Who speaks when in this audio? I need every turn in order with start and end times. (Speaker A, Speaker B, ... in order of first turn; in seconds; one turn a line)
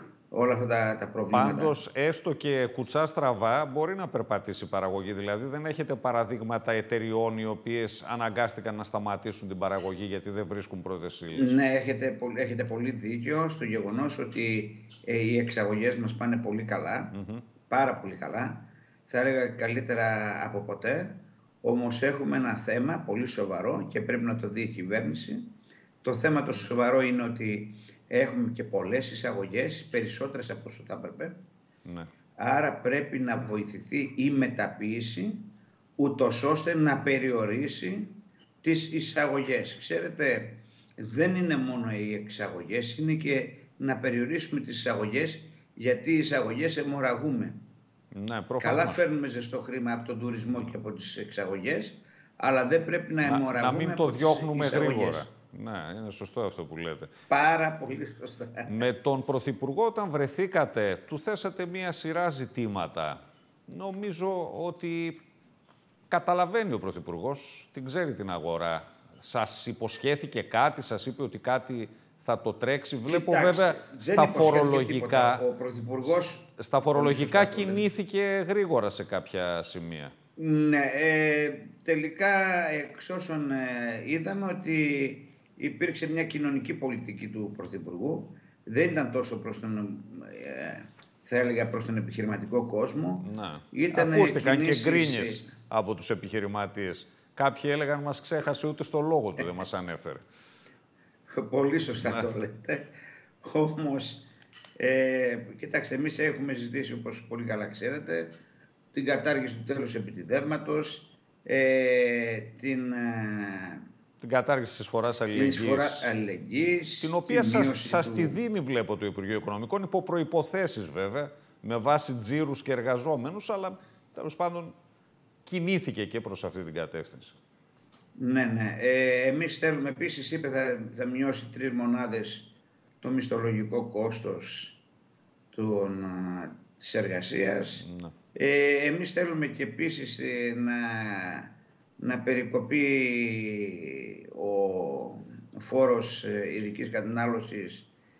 Speaker A: 0.3-1.8
Speaker B: 1.3-11.6
Speaker A: 11.3-17.1
Speaker B: 17.1-17.4
Speaker A: 17.7-31.4
Speaker A: 32.4-47.6
Speaker B: 48.1-49.1
Speaker A: 48.6-55.2
Speaker B: 53.2-57.1
Speaker A: 57.3-58.7
Speaker B: 58.7-65.2
Speaker B: 66.1-75.4
Speaker A: 73.1-77.9
Speaker B: 76.1-80.2
Speaker A: 80.4-95.5
Speaker B: 93.2-100.2
Speaker A: 101.3-104.3
Speaker A: 104.8-108.4
Speaker A: 108.9-113.8
Speaker B: 114.2-116.1
Speaker A: 115.3-118.4
Speaker B: 117.0-124.8
Speaker B: 125.5-127.4
Speaker A: 128.2-134.8
Speaker A: 135.5-147.9
Speaker B: 137.8-138.1